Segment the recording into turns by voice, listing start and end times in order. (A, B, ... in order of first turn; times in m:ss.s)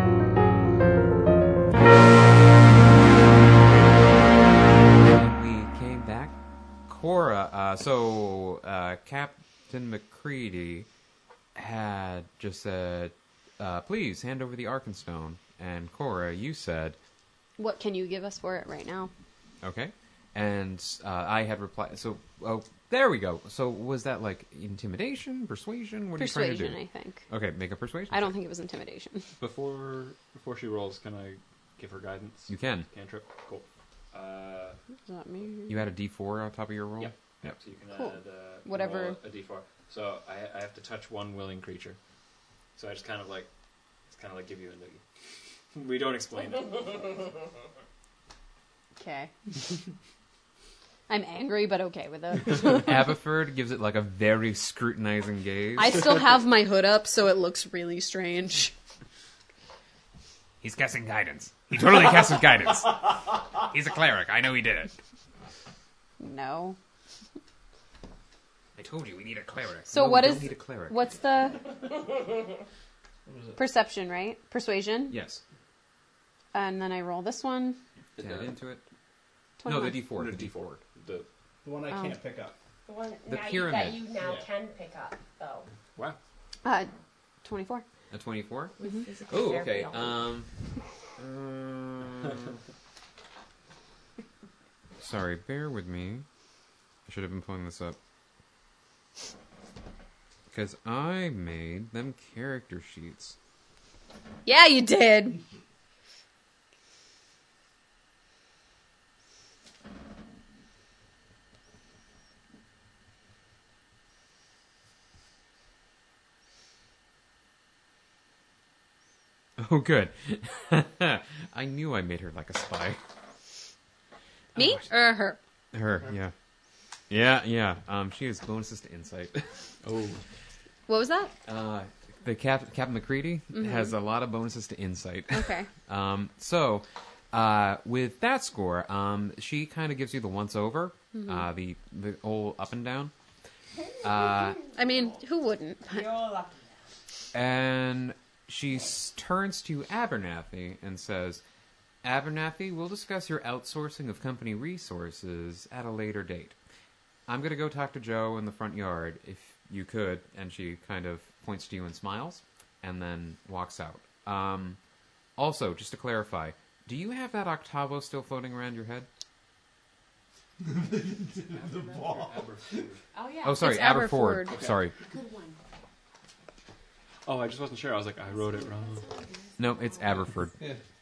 0:05.0-0:06.3 A
0:06.9-0:10.9 A
0:11.5-0:17.0 A
0:17.6-0:19.1 B
0:19.6-0:28.3 A
0:26.2-0:27.3 B
0:28.1-0:29.3 B
0:29.4-0:34.8 C
0:32.5-0:32.9 A
0:35.0-0:35.8 B
0:35.7-0:37.6 A
0:37.0-0:42.0 C
0:37.9-0:39.2 B
0:42.8-0:43.5 C
0:44.1-0:45.0 C
0:45.7-0:47.2 C
0:49.0-0:49.3 B
0:51.1-0:53.0 B
0:52.6-0:56.2 A
0:55.8-0:58.7 B
1:00.6-1:04.9 A
1:06.2-1:06.8 B
1:08.8-1:10.9 A
1:09.9-1:11.7 B
1:13.2-1:13.6 D
1:13.6-1:15.2 B
1:15.1-1:15.4 A
1:16.5-1:17.8 B
1:18.2-1:18.5 C
1:18.2-1:18.8 A
1:19.6-1:20.0 B
1:19.6-1:20.8 A
1:20.0-1:21.2 C
1:21.6-1:22.5 D
1:21.9-1:22.2 B
1:22.8-1:25.7 E
1:23.3-1:24.0 A
1:24.2-1:24.4 D
1:26.6-1:26.9 B
1:27.4-1:27.8 B
1:28.1-1:28.7 A
1:28.8-1:30.2 E
1:28.8-1:29.1 B
1:29.3-1:30.5 A
1:31.2-1:32.6 A
1:35.0-1:36.2 A
1:37.1-1:38.0 A
1:40.5-1:43.4 A
1:44.4-1:45.4 B
1:59.6-2:03.0 A
2:04.5-2:04.8 A
2:04.6-2:05.4 B
2:05.7-2:06.3 A
2:07.1-2:09.6 A
2:09.8-2:10.2 C
2:10.9-2:11.3 B
2:11.4-2:23.1 A
2:13.5-2:13.9 B
2:15.3-2:15.7 B
2:21.1-2:21.5 B
2:24.0-2:24.6 A
2:24.4-2:26.1 B
2:25.9-2:26.8 E
2:27.3-2:31.4 A
2:32.0-2:36.6 A
2:37.3-2:44.8 A
2:45.4-2:49.1 A
2:50.6-2:52.9 D
2:51.5-2:53.0 C
2:53.1-2:53.6 E
2:53.4-2:54.9 A
2:53.6-2:54.6 B
2:54.5-2:54.9 C
2:55.0-2:55.6 E
2:57.2-2:59.0 C
2:58.3-3:00.2 E
2:59.6-3:00.6 A